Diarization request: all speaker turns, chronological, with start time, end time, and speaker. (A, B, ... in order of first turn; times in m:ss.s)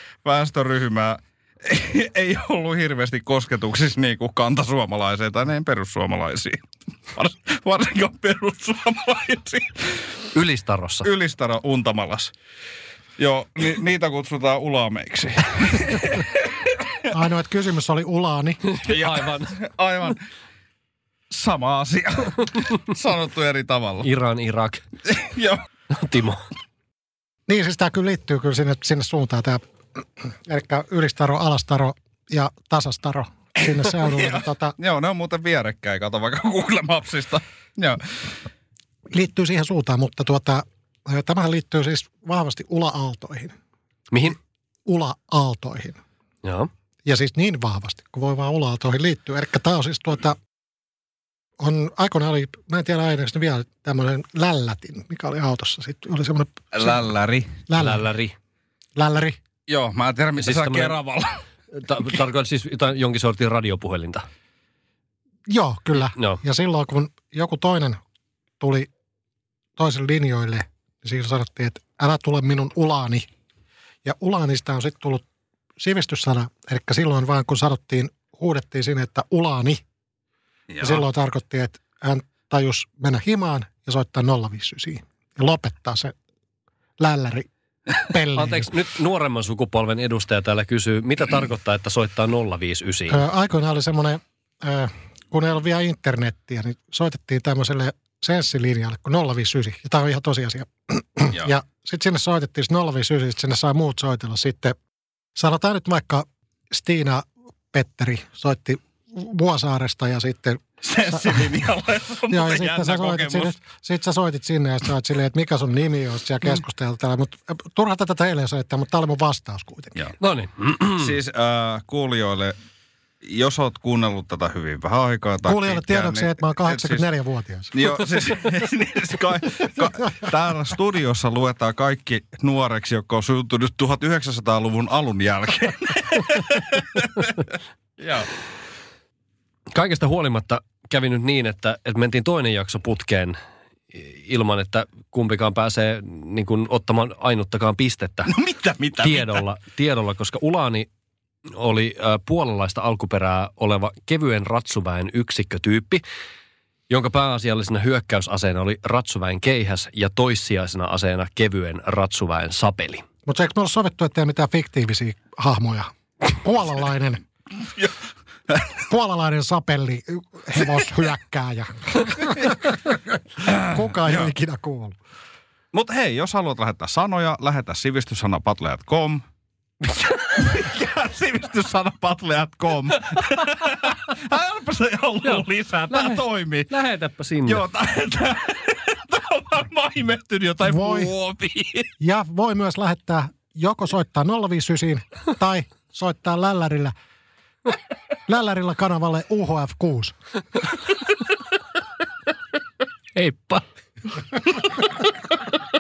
0:00.2-0:10.0 A
0:10.3-0:11.1 B
0:11.0-0:12.3 A
0:13.2-0:17.1 A
0:17.1-0:18.6 C
0:18.6-0:19.5 B
0:18.9-0:20.2 A
0:21.3-0:24.1 A
0:24.0-0:24.8 B
0:25.1-0:25.6 A
0:25.9-0:26.4 B
0:27.5-0:34.7 C
0:33.6-0:38.3 A
0:39.1-0:43.5 C
0:44.1-0:44.4 B
0:44.8-0:46.0 C
0:46.4-0:46.7 B
0:47.0-0:50.4 C
0:51.6-0:57.0 C
0:56.7-0:57.5 A
0:57.7-0:58.1 C
0:57.8-0:58.3 B
0:59.0-0:59.4 C
0:59.7-1:01.3 A
1:00.4-1:01.0 B
1:01.7-1:04.2 B
1:05.5-1:08.0 C
1:08.6-1:08.9 C
1:09.8-1:13.3 C
1:14.0-1:15.2 C
1:15.8-1:19.8 C
1:20.7-1:21.0 A
1:20.8-1:26.1 C
1:27.0-1:28.7 C
1:28.3-1:33.2 B
1:33.1-1:44.8 C
1:45.4-1:51.5 C
1:50.8-1:53.5 A
1:52.3-2:00.0 C
2:00.2-2:01.1 B
2:01.0-2:02.6 A
2:03.2-2:07.0 A
2:05.4-2:07.9 C
2:07.7-2:17.4 A
2:18.0-2:18.3 A
2:19.7-2:23.4 B
2:23.9-2:28.3 B
2:28.3-2:29.4 A
2:29.0-2:30.9 B
2:31.5-2:36.0 B
2:36.9-2:43.0 B
2:43.2-2:47.2 C
2:48.8-2:55.0 C
2:53.4-2:54.3 A
2:55.7-2:59.2 A
3:00.3-3:06.7 A
3:05.2-3:07.6 B
3:07.4-3:11.9 A
3:10.6-3:11.1 C
3:12.0-3:16.9 C
3:18.3-3:20.1 C
3:23.1-3:23.6 B